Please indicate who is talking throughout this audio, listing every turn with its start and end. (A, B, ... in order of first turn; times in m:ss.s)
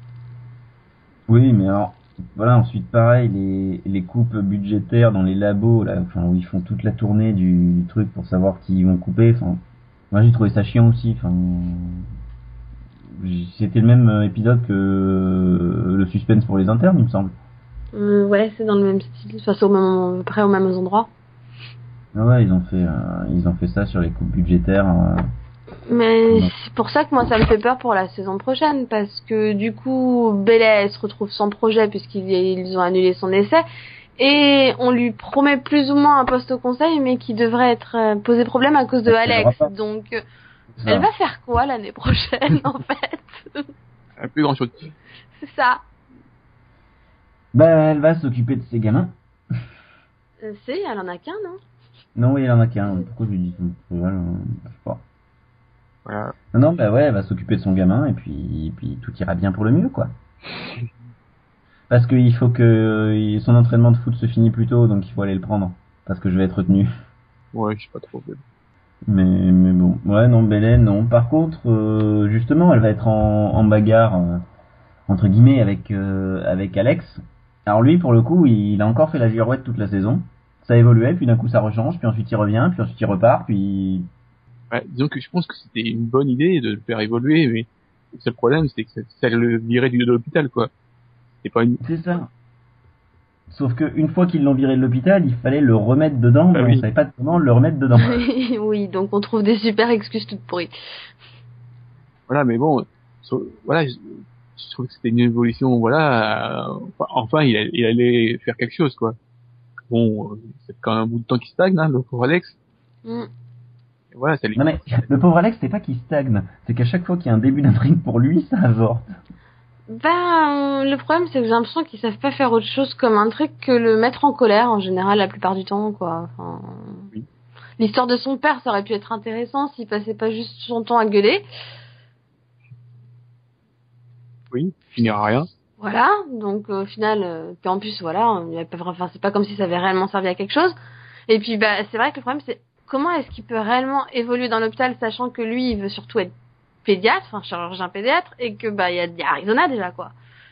0:01.3-0:12.0 A
0:13.1-0:17.3 A
0:17.9-0:21.1 B
0:22.1-0:25.2 A
0:25.9-0:33.6 B
0:34.2-0:40.2 B
0:39.1-0:39.7 A
0:40.8-0:41.1 A
0:40.9-0:43.7 B
0:44.2-0:44.7 C
0:45.4-0:45.8 B
0:47.5-0:49.1 A
0:50.4-0:51.6 B
0:52.2-0:55.0 A
0:56.0-0:56.3 C
0:56.5-1:00.1 A
1:01.9-1:06.9 A
1:07.5-1:08.4 C
1:09.1-1:14.4 A
1:15.1-1:24.1 A
1:24.7-1:30.7 C
1:31.4-1:31.8 C
1:31.8-1:32.3 A
1:33.5-1:38.2 A
1:36.5-1:36.8 C
1:38.0-1:40.7 B
1:42.3-1:49.2 C
1:49.9-1:52.6 C
1:54.1-1:54.8 C
1:54.6-1:59.1 A
1:59.9-2:07.1 B
2:07.8-2:11.4 B
2:14.5-2:15.5 C
2:15.8-2:20.8 B
2:21.3-2:26.3 B
2:26.8-2:30.2 B